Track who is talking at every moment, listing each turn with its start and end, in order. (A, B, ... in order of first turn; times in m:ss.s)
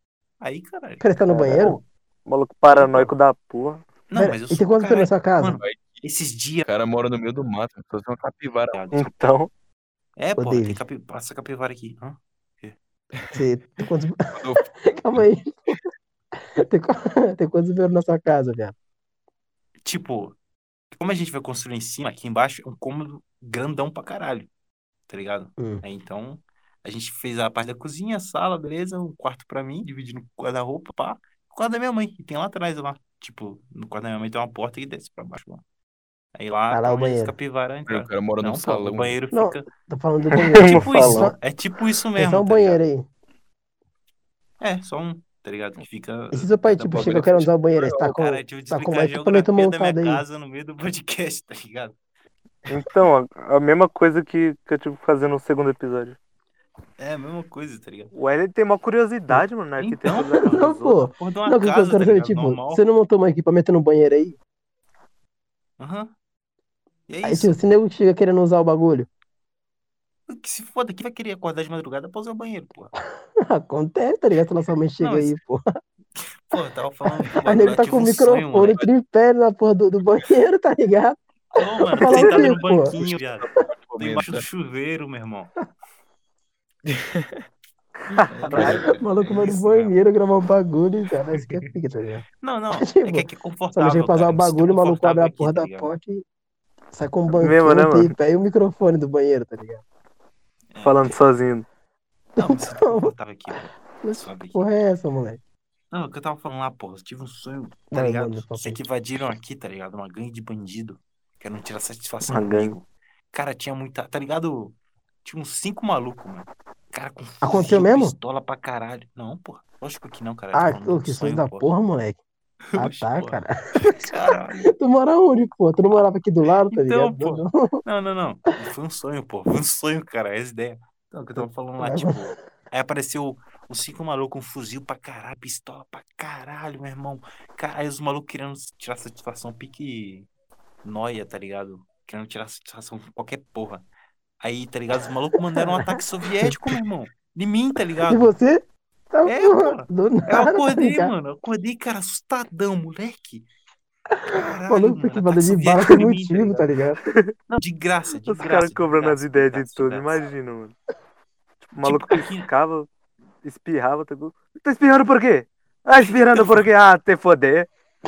0:00.4-0:01.1 A
0:01.0-0:01.8 B
0:01.3-0:03.8 C
0:02.7-0:03.1 A
0:04.1-0:06.7 A
0:04.1-0:05.6 B
0:05.6-0:06.0 D
0:06.6-0:08.8 D
0:08.7-0:09.1 A
0:08.9-0:09.5 C
0:10.2-0:12.8 A
0:10.4-0:10.8 B
0:13.3-0:15.8 B
0:14.3-0:15.8 D
0:16.6-0:18.7 B
0:19.8-0:20.4 A
0:20.9-0:24.5 A
0:25.1-0:35.6 A
0:25.6-0:25.8 B
0:36.3-0:39.6 A
0:36.7-0:37.3 B
0:37.9-0:39.1 D
0:39.3-0:41.4 B
0:40.3-0:41.3 C
0:40.6-0:42.8 A
0:42.2-0:43.0 B
0:44.6-0:52.0 A
0:46.3-0:50.2 B
0:46.9-0:48.1 D
0:52.7-0:56.2 C
0:57.0-0:58.1 A
0:58.1-1:01.1 C
0:59.8-1:00.6 A
1:00.4-1:04.4 B
1:01.2-1:02.8 A
1:05.8-1:06.1 A
1:07.1-1:07.5 A
1:07.2-1:09.1 B
1:10.3-1:12.9 A
1:13.4-1:15.6 B
1:15.0-1:15.3 A
1:16.2-1:18.8 A
1:17.1-1:23.0 B
1:21.5-1:25.5 A
1:22.0-1:22.3 C
1:22.8-1:24.4 D
1:26.8-1:27.4 D
1:28.1-1:28.8 C
1:28.3-1:29.9 A
1:28.5-1:28.8 D
1:28.5-1:32.2 B
1:31.3-1:31.6 A
1:32.4-1:35.9 A
1:32.8-1:36.2 B
1:36.9-1:39.8 B
1:37.3-1:38.1 C
1:40.7-1:41.2 A
1:40.8-1:41.6 C
1:42.4-1:43.1 B
1:42.4-1:44.6 A
1:44.0-1:45.4 B
1:45.9-2:01.7 A
1:47.9-1:48.8 B
1:52.3-1:52.8 C
1:57.4-1:58.1 B
2:00.5-2:02.2 B
2:02.7-2:04.7 A
2:02.8-2:07.8 B
2:06.7-2:20.3 A
2:11.4-2:12.4 B
2:20.8-2:23.8 A
2:24.4-2:28.3 A
2:25.6-2:26.8 B
2:28.1-2:31.1 B
2:29.2-2:33.5 A
2:34.1-2:37.0 B
2:34.3-2:36.7 A
2:37.0-2:37.3 C
2:37.5-2:40.3 A
2:38.3-2:40.7 C
2:41.7-2:42.9 C
2:41.8-2:42.5 A
2:43.4-2:47.7 C